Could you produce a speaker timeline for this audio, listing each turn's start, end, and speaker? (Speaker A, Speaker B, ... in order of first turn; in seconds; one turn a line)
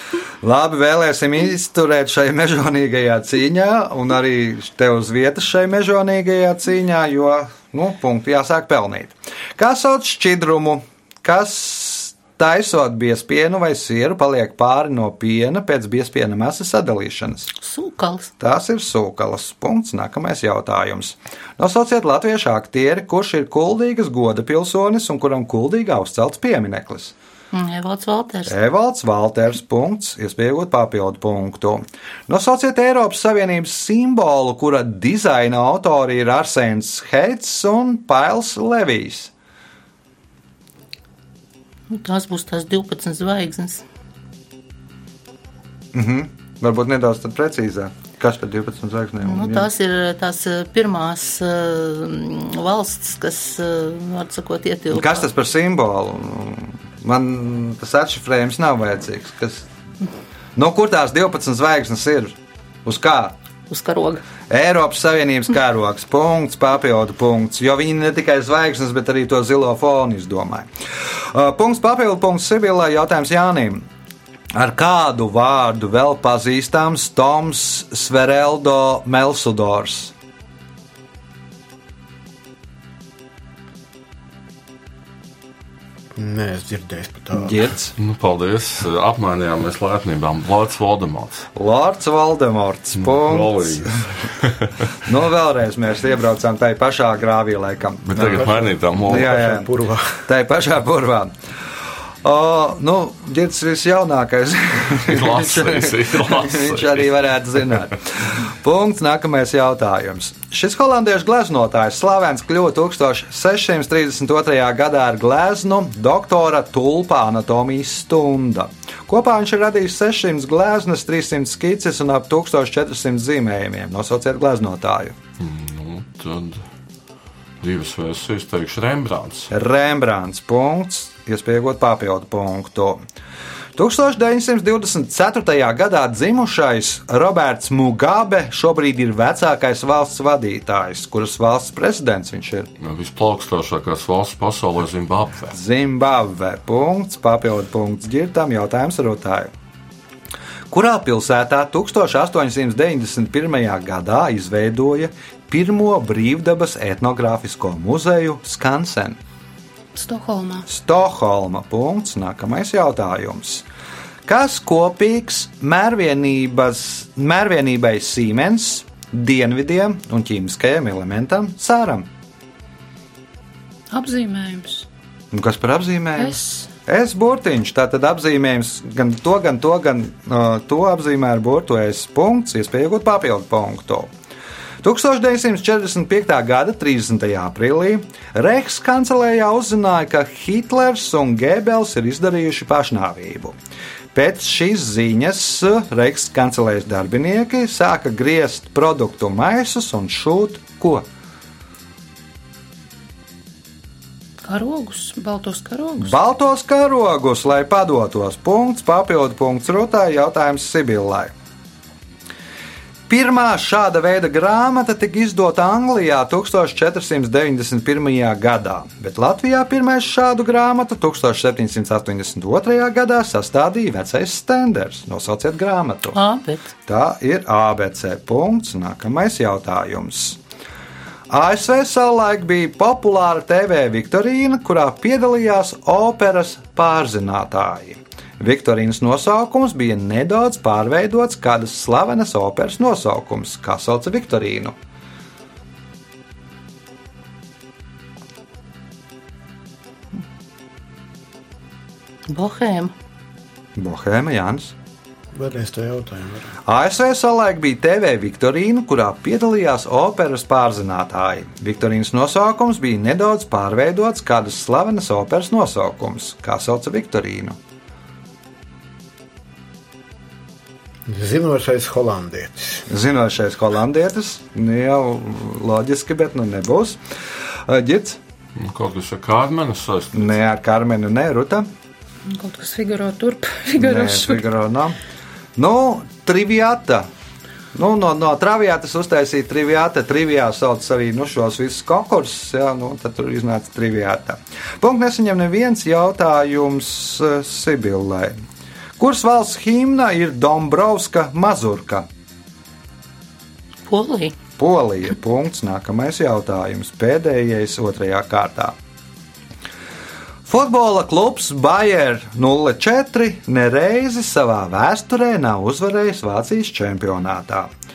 Speaker A: 0.4-17.5
Speaker B: 17.6-18.3
Speaker A: 18.4-27.1
Speaker B: 27.5-28.5
Speaker A: 28.5-39.3
Speaker B: 41.9-43.9
Speaker A: 45.9-49.7
Speaker B: 49.2-55.2
Speaker A: 54.9-59.6
Speaker A: 60.5-63.4
Speaker B: 63.7-64.2
Speaker A: 64.5-73.8
Speaker A: 74.5-80.1
Speaker C: 86.1-87.6
Speaker A: 87.3-88.0
Speaker D: 88.0-91.5
Speaker A: 91.5-93.9
Speaker D: 93.0-94.9
Speaker A: 95.0-98.5
Speaker D: 98.1-99.5
Speaker C: 98.2-100.2
Speaker A: 99.1-101.3
Speaker A: 102.2-125.2
Speaker D: 105.0-107.1
Speaker D: 125.4-126.6
Speaker D: 127.6-129.5
Speaker A: 129.5-133.0
Speaker A: 133.7-142.7
Speaker D: 142.8-145.5
Speaker A: 145.5-149.5
Speaker A: 150.7-159.2
Speaker E: 159.9-160.7
Speaker A: 160.7-163.7
Speaker A: 164.2-172.1
Speaker E: 173.9-174.9
Speaker A: 175.3-184.1
Speaker E: 176.2-176.7
Speaker A: 184.8-193.6
Speaker A: 194.1-201.1
Speaker E: 204.4-206.2
Speaker A: 206.0-211.3
Speaker A: 213.1-226.2
Speaker B: 226.1-226.7
Speaker A: 226.8-230.4
Speaker A: 231.3-244.8
Speaker B: 252.3-252.9
Speaker A: 253.8-254.7
Speaker C: 255.3-256.6
Speaker A: 256.6-267.6
Speaker C: 271.1-272.8
Speaker A: 272.9-277.0
Speaker A: 277.6-278.2
Speaker D: 278.6-280.3
Speaker A: 280.1-281.7
Speaker E: 282.3-284.4
Speaker A: 283.8-285.0
Speaker A: 285.6-287.1
Speaker A: 287.7-298.4
Speaker A: 299.0-302.1
Speaker B: 303.9-304.4
Speaker A: 304.6-308.8
Speaker A: 310.4-317.7